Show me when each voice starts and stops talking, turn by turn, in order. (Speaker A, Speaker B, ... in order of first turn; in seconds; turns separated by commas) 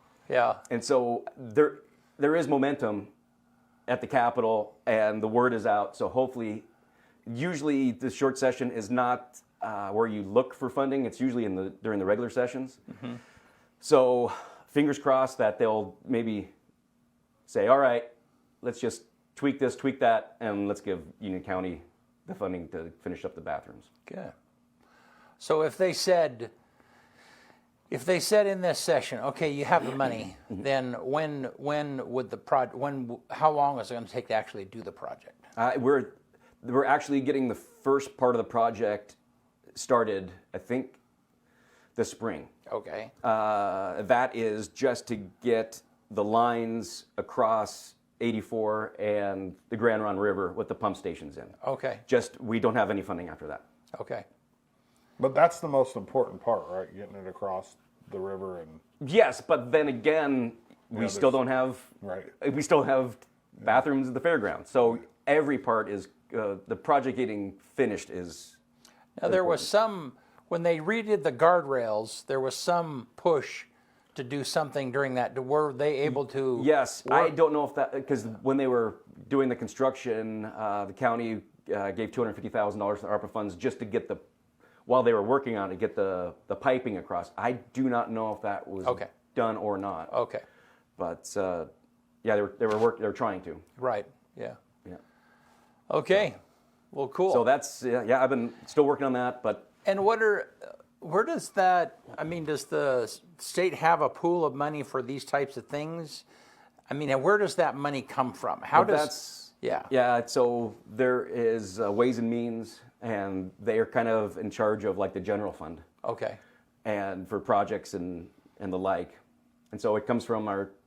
Speaker A: 0.3-0.6, Speaker B: 0.7-3.1, Speaker B: 3.9-6.7, Speaker B: 7.3-12.8, Speaker B: 13.8-16.5, Speaker B: 17.5-18.1, Speaker B: 18.6-23.9, Speaker A: 24.1-24.3, Speaker A: 25.4-26.5, Speaker A: 27.9-35.4, Speaker B: 35.5-39.1, Speaker B: 39.7-41.0, Speaker B: 42.0-42.5, Speaker A: 42.7-43.1, Speaker B: 43.2-51.5, Speaker A: 51.6-52.0, Speaker B: 52.0-53.6, Speaker A: 53.9-54.2, Speaker C: 55.2-58.8, Speaker B: 59.0-68.6, Speaker C: 60.9-61.4, Speaker C: 62.0-62.3, Speaker A: 69.2-77.3, Speaker B: 69.2-69.7, Speaker B: 76.5-84.2, Speaker B: 84.8-90.1, Speaker A: 90.1-90.4, Speaker B: 91.0-91.7, Speaker B: 92.2-93.6, Speaker A: 93.8-94.6, Speaker A: 95.9-96.4, Speaker A: 96.9-97.4, Speaker B: 97.3-99.7, Speaker A: 99.8-106.2, Speaker A: 106.9-109.9, Speaker B: 108.7-115.8, Speaker A: 116.0-116.4, Speaker B: 116.8-119.2, Speaker B: 119.7-120.7